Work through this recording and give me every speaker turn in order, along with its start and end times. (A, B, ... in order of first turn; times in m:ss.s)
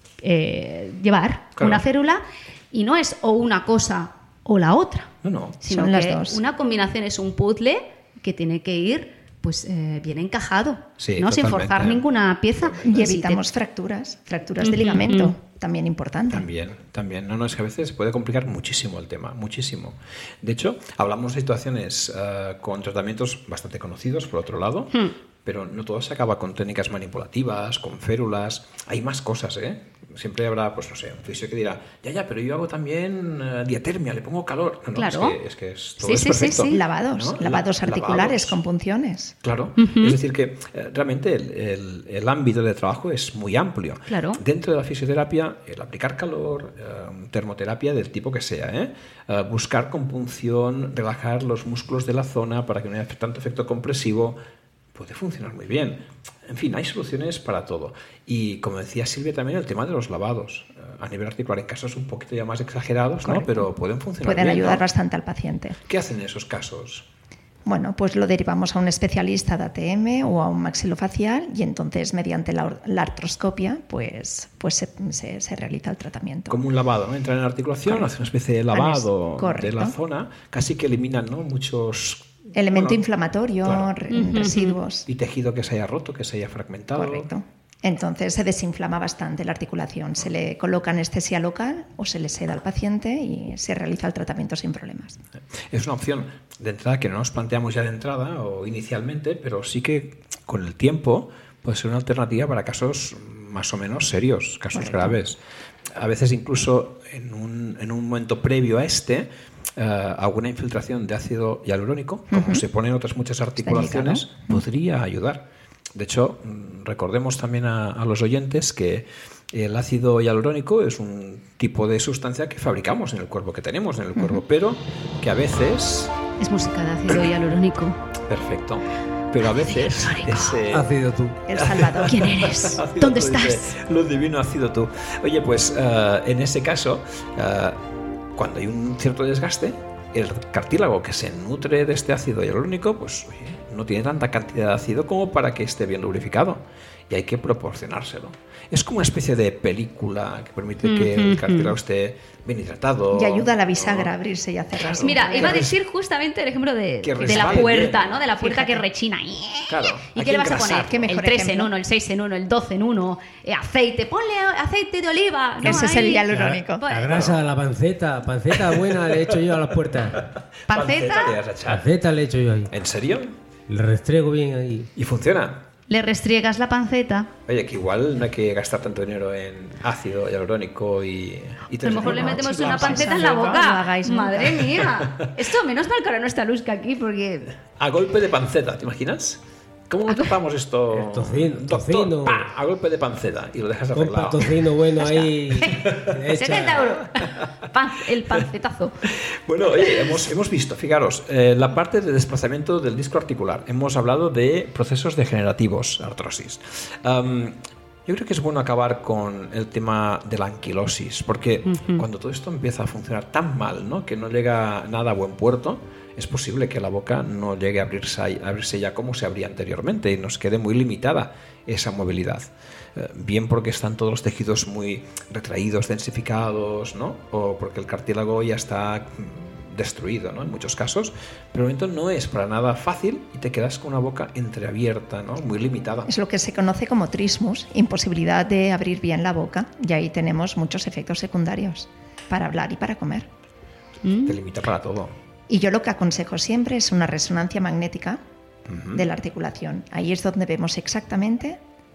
0:00.2-0:13.4 A
0:01.6-0:01.8 B
0:05.2-0:05.6 B
0:05.7-0:06.4 C
0:11.0-0:12.0 B
0:12.6-0:13.1 B
0:12.8-0:16.5 C
0:14.6-0:15.3 A
0:16.3-0:38.6 B
0:35.0-0:35.4 A
0:36.0-0:36.8 A
0:36.7-0:39.3 C
0:39.4-0:54.4 B
0:39.8-0:40.2 A
0:44.1-0:44.4 A
0:55.0-1:04.8 B
1:03.2-1:03.7 C
1:04.2-1:05.8 C
1:05.9-1:07.1 B
1:07.6-1:16.6 C
1:16.5-1:23.0 B
1:17.9-1:18.1 C
1:18.7-1:19.9 C
1:22.6-1:25.1 C
1:23.6-1:24.1 B
1:24.1-1:24.8 A
1:25.1-1:27.3 B
1:27.0-1:35.2 C
1:35.7-1:45.4 B
1:44.7-1:45.2 C
1:46.0-2:06.2 B
1:52.3-1:52.6 C
1:53.6-1:54.6 C
2:06.4-2:08.0 A
2:08.3-2:10.9 B
2:09.6-2:10.6 A
2:10.7-2:11.4 D
2:11.5-2:12.2 C
2:11.5-2:17.8 B
2:12.1-2:13.7 A
2:18.4-2:34.1 B
2:30.8-2:31.7 A
2:33.1-2:35.7 C
2:34.7-2:35.7 B
2:35.0-2:47.3 A
2:37.0-2:38.2 B
2:37.3-2:37.9 C
2:38.4-2:38.8 C
2:39.7-2:41.1 B
2:40.6-2:41.7 C
2:45.6-2:46.8 C
2:46.3-2:50.3 D
2:47.1-2:47.4 B
2:48.7-2:49.4 B
2:50.2-2:51.9 B
2:50.7-2:51.4 A
2:51.7-2:52.7 D
2:52.7-2:53.3 B
2:53.7-2:54.9 D
2:55.0-2:55.6 B
2:55.9-2:57.3 A
2:57.5-3:03.7 B
3:01.8-3:07.5 A
3:01.9-3:04.9 C
3:07.8-3:14.7 B
3:10.9-3:12.5 D
3:13.9-3:16.9 D
3:15.0-3:19.0 A
3:15.7-3:17.4 B
3:19.1-3:56.1 B
3:31.7-3:32.0 A
3:56.1-4:03.3 C
4:04.0-4:04.4 A
4:04.3-4:05.1 B
4:05.5-4:08.2 C
4:08.7-4:09.1 B
4:09.0-4:11.6 C